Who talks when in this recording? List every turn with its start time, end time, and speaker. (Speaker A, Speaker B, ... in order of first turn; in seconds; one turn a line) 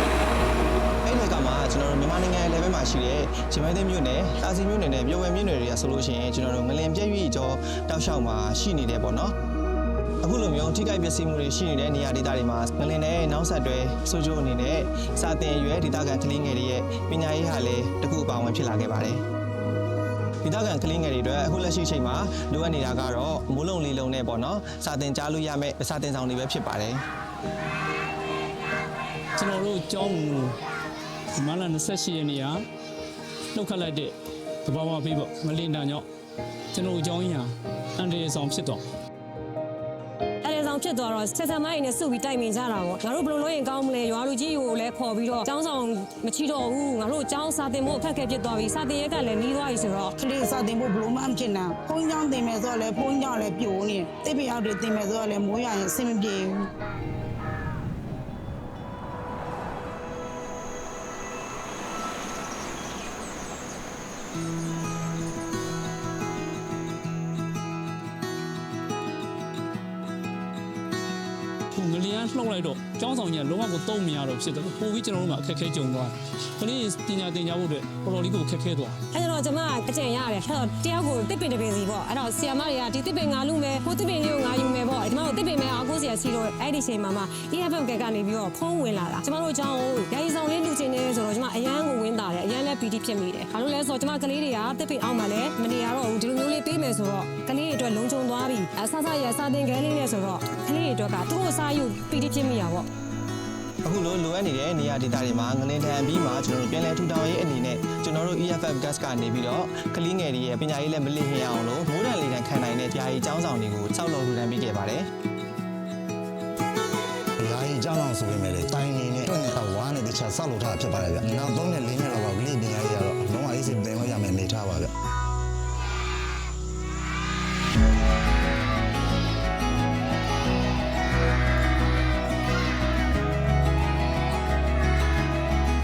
Speaker A: 1.0-9.3
Speaker A: 10.2-19.2
Speaker A: 20.4-27.0
Speaker B: 29.4-30.6
Speaker B: 31.4-32.6
Speaker B: 33.5-34.1
Speaker B: 34.6-36.0
Speaker B: 36.7-38.8
Speaker C: 40.4-50.1
Speaker D: 50.2-56.7
Speaker B: 71.7-79.0
Speaker C: 79.1-102.9
Speaker A: 103.8-115.1
Speaker E: 117.4-124.9